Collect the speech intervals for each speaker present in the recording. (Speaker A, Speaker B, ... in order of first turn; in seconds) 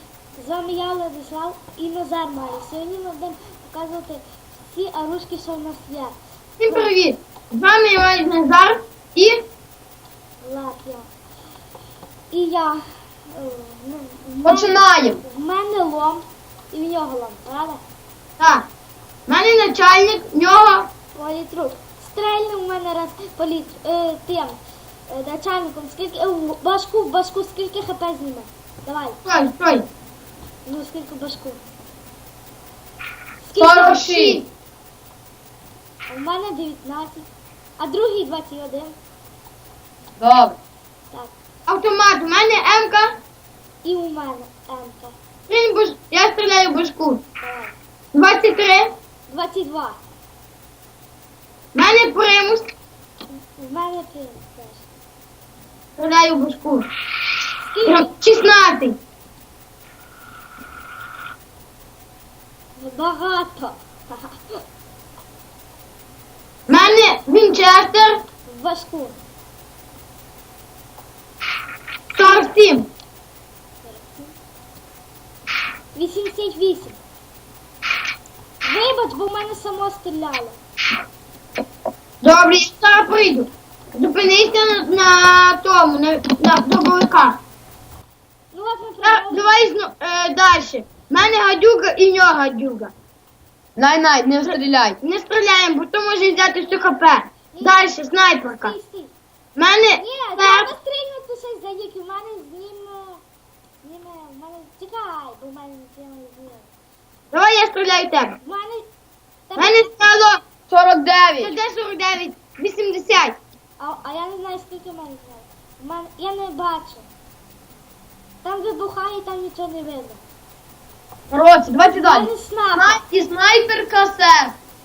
Speaker A: 0.3-6.1, 6.7-6.9, 10.4-11.1, 12.3-17.8, 21.1-29.2, 30.6-31.6, 33.4-33.9, 36.1-37.3, 37.8-39.0, 43.8-45.1, 47.4-47.8, 49.3-50.0, 53.3-54.9, 57.6-58.1, 62.8-64.3, 68.5-69.2, 73.8-74.3, 75.9-77.0, 78.6-80.6, 88.5-89.6, 97.5-99.1, 99.9-103.2, 103.8-106.7, 108.4-108.8, 109.5-109.9, 113.8-117.1, 118.4-120.2, 121.7-123.0
Speaker B: 6.6-9.4, 18.4-18.7, 19.3-20.9, 29.2-29.9, 33.7-34.5, 41.7-43.1, 45.5-47.2, 48.1-48.9, 51.7-52.7, 56.0-56.9, 57.8-59.0, 66.7-68.2, 72.1-72.9, 82.2-87.4, 89.0-92.9, 94.5-98.8, 99.5-100.7, 107.3-108.4, 109.6-110.4, 111.4-113.4
Speaker C: 14.4-15.2, 33.6-34.4, 40.2-40.6, 93.8-95.0, 110.7-111.5, 121.3-124.6